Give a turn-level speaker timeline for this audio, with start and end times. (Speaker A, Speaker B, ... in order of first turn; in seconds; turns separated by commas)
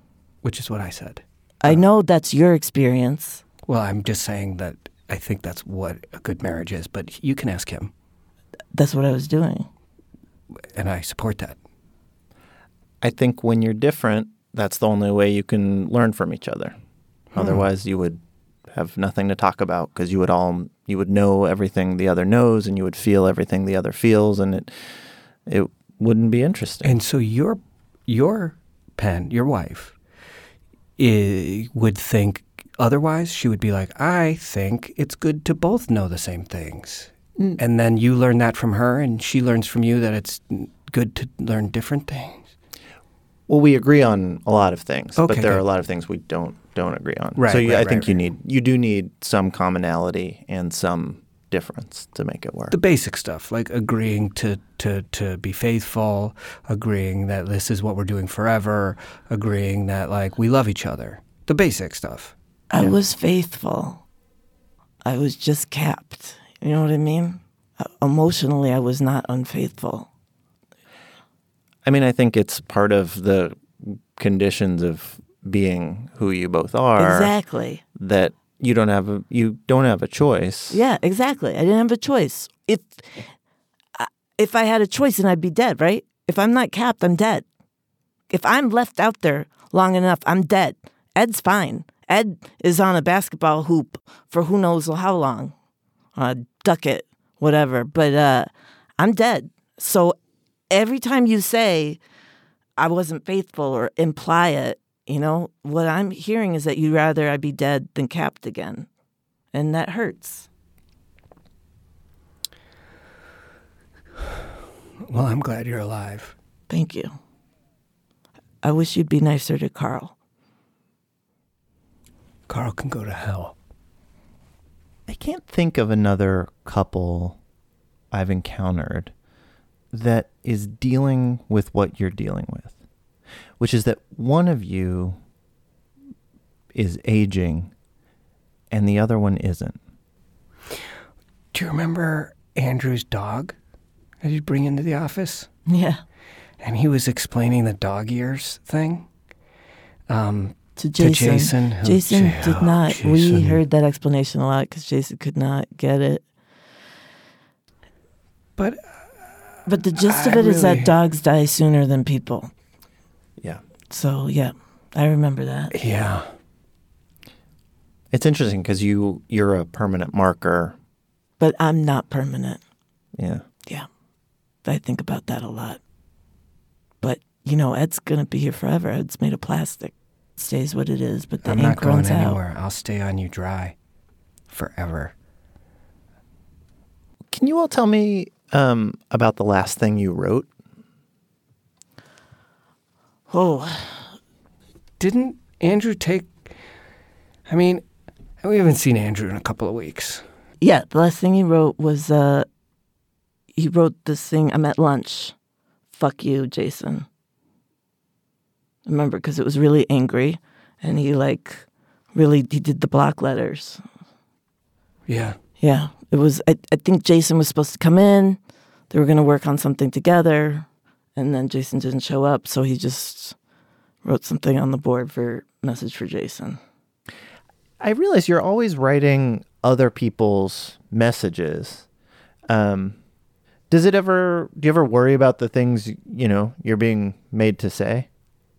Speaker A: 0.4-1.8, Speaker B: 1.6-3.4, Speaker A: 3.7-7.9, Speaker B: 8.7-9.7, Speaker A: 10.7-11.6, Speaker C: 13.0-16.7, Speaker C: 17.3-24.9, Speaker A: 17.4-17.6, Speaker C: 25.4-27.0, Speaker A: 26.8-29.9, Speaker A: 31.0-42.5, Speaker C: 43.5-52.8, Speaker A: 45.2-45.6, Speaker A: 47.4-48.1, Speaker A: 52.7-62.3, Speaker B: 62.7-64.0, Speaker B: 65.0-70.1, Speaker C: 71.8-77.3, Speaker B: 77.0-77.8, Speaker C: 77.9-80.8, Speaker B: 80.7-83.3, Speaker B: 84.0-87.4, Speaker B: 88.3-95.5, Speaker B: 96.2-100.2, Speaker B: 100.7-102.0, Speaker B: 102.8-108.9, Speaker B: 109.5-110.5, Speaker A: 115.0-116.3, Speaker B: 116.7-117.1, Speaker B: 118.6-120.1, Speaker A: 122.5-123.5, Speaker C: 125.1-127.4, Speaker C: 128.1-129.1, Speaker C: 129.9-132.8, Speaker C: 133.6-135.2, Speaker C: 136.7-137.7, Speaker C: 138.7-139.8, Speaker A: 141.5-143.5, Speaker A: 144.2-145.5, Speaker B: 145.7-146.0, Speaker A: 146.6-149.1, Speaker A: 150.1-153.6, Speaker B: 150.8-156.2, Speaker A: 158.6-160.9, Speaker B: 159.7-162.5, Speaker B: 163.9-165.8, Speaker A: 165.7-166.3, Speaker C: 168.1-170.8, Speaker B: 171.4-172.6, Speaker C: 173.2-173.4, Speaker B: 174.6-175.8, Speaker B: 177.0-182.4, Speaker A: 181.4-183.7, Speaker A: 184.5-185.1, Speaker C: 187.3-190.5, Speaker B: 193.3-194.1, Speaker A: 195.0-196.5, Speaker A: 197.5-197.8, Speaker A: 198.4-200.2, Speaker B: 200.6-202.5, Speaker B: 203.6-205.3, Speaker B: 205.9-207.1, Speaker B: 208.8-213.8, Speaker A: 215.1-215.4, Speaker B: 215.6-218.4, Speaker B: 218.9-223.3, Speaker B: 224.0-226.6, Speaker C: 227.8-231.8, Speaker C: 232.5-233.0, Speaker C: 233.7-238.1